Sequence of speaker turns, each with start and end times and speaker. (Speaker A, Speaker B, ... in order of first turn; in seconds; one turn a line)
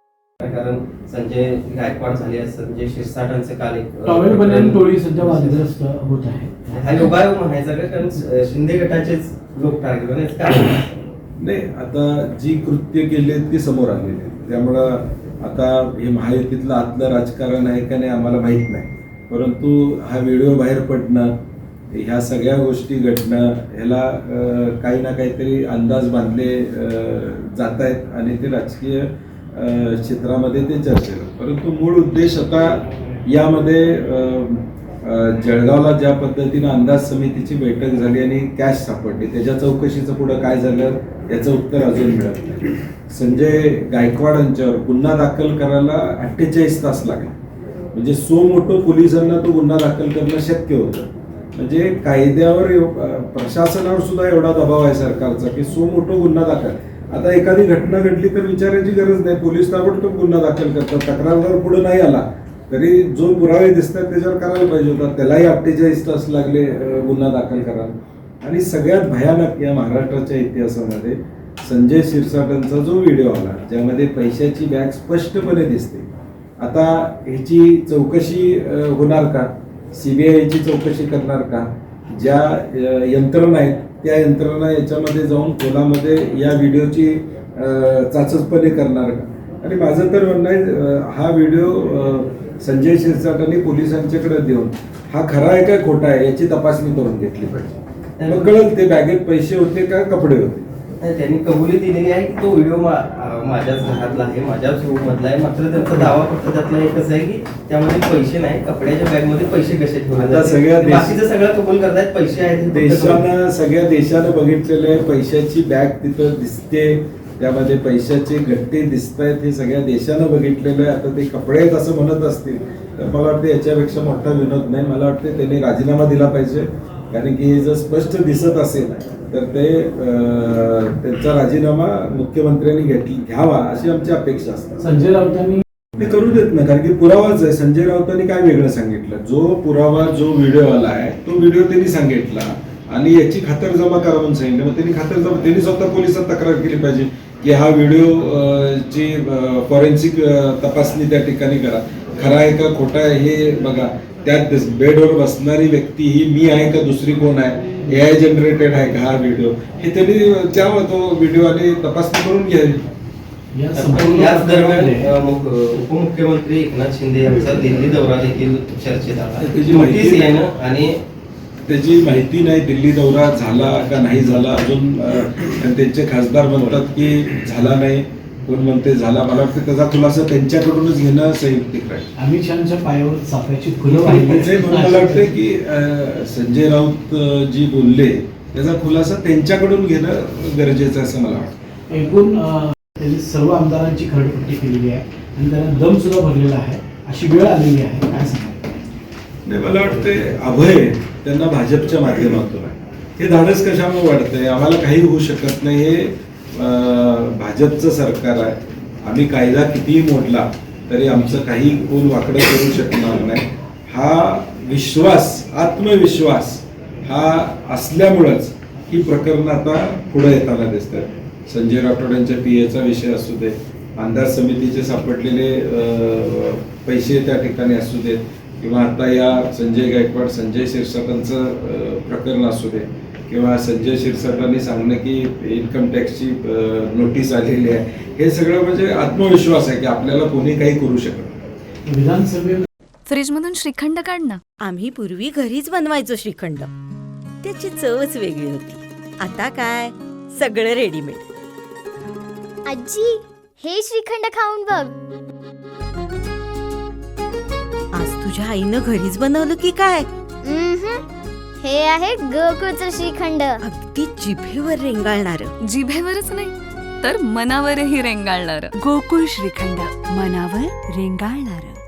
Speaker A: 0.4-5.6
Speaker B: 4.1-7.1
Speaker A: 6.8-10.9
Speaker C: 11.4-21.3
Speaker C: 21.9-47.4
Speaker C: 47.9-76.1
Speaker C: 76.6-100.7
Speaker A: 98.2-98.6
Speaker A: 101.0-113.2
Speaker C: 110.2-111.2
Speaker C: 112.7-134.8
Speaker B: 134.8-135.6
Speaker C: 135.9-162.9
Speaker B: 163.5-165.1
Speaker A: 163.8-170.9
Speaker C: 169.4-170.3
Speaker C: 171.7-182.1
Speaker B: 182.2-185.3
Speaker C: 183.9-191.5
Speaker B: 191.9-198.7
Speaker C: 199.5-241.3
Speaker B: 241.9-242.7
Speaker D: 243.1-244.4
Speaker E: 244.7-246.7
Speaker E: 247.5-251.2
Speaker F: 252.7-253.1
Speaker F: 253.6-254.9
Speaker E: 258.0-260.1
Speaker F: 260.5-261.0
Speaker F: 261.7-263.4
Speaker E: 263.7-265.5
Speaker D: 265.7-268.7
Speaker G: 268.8-271.8